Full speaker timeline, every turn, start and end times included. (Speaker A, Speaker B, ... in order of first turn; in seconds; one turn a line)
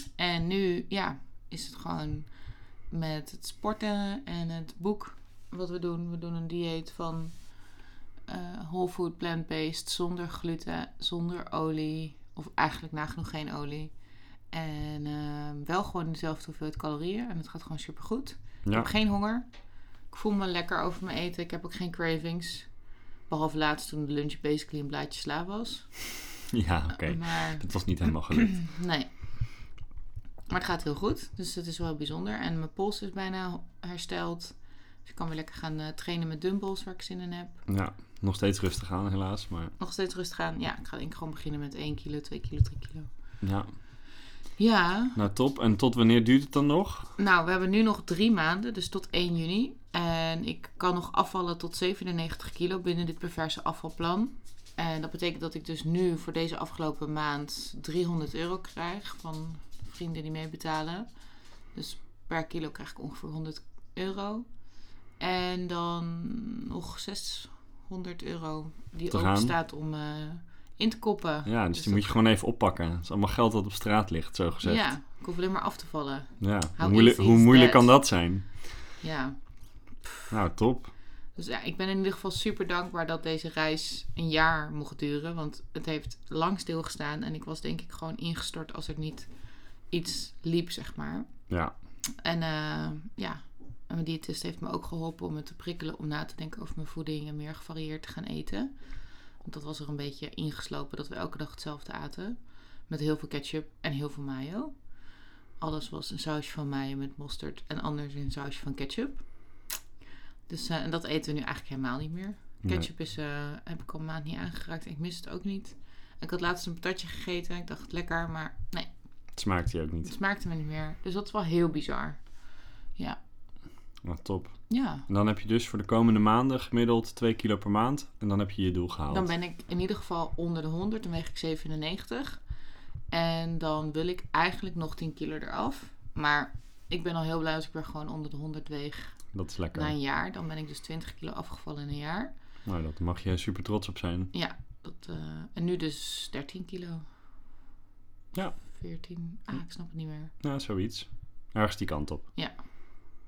Speaker A: 0.2-26.3
Speaker B: 18.6-18.9
Speaker B: 26.5-28.7
Speaker A: 26.9-29.8
Speaker A: 30.5-37.6
Speaker B: 37.7-39.7
Speaker A: 39.8-43.1
Speaker B: 43.4-43.7
Speaker A: 44.6-45.2
Speaker B: 45.1-47.1
Speaker A: 47.2-72.2
Speaker B: 69.1-69.5
Speaker B: 71.5-74.9
Speaker A: 74.6-78.3
Speaker B: 76.4-78.7
Speaker A: 79.0-80.1
Speaker B: 80.3-80.9
Speaker A: 81.3-91.5
Speaker B: 91.5-91.7
Speaker A: 92.2-105.0
Speaker A: 105.5-109.7
Speaker A: 110.5-119.3
Speaker B: 112.6-112.9
Speaker B: 119.3-120.2
Speaker A: 120.0-122.4
Speaker A: 122.9-123.2
Speaker B: 124.0-129.3
Speaker A: 124.7-125.1
Speaker A: 129.1-132.5
Speaker A: 133.1-142.3
Speaker B: 139.3-139.9
Speaker B: 142.7-144.3
Speaker A: 144.3-147.0
Speaker B: 148.3-148.7
Speaker A: 148.7-150.3
Speaker B: 150.4-152.2
Speaker A: 152.3-152.6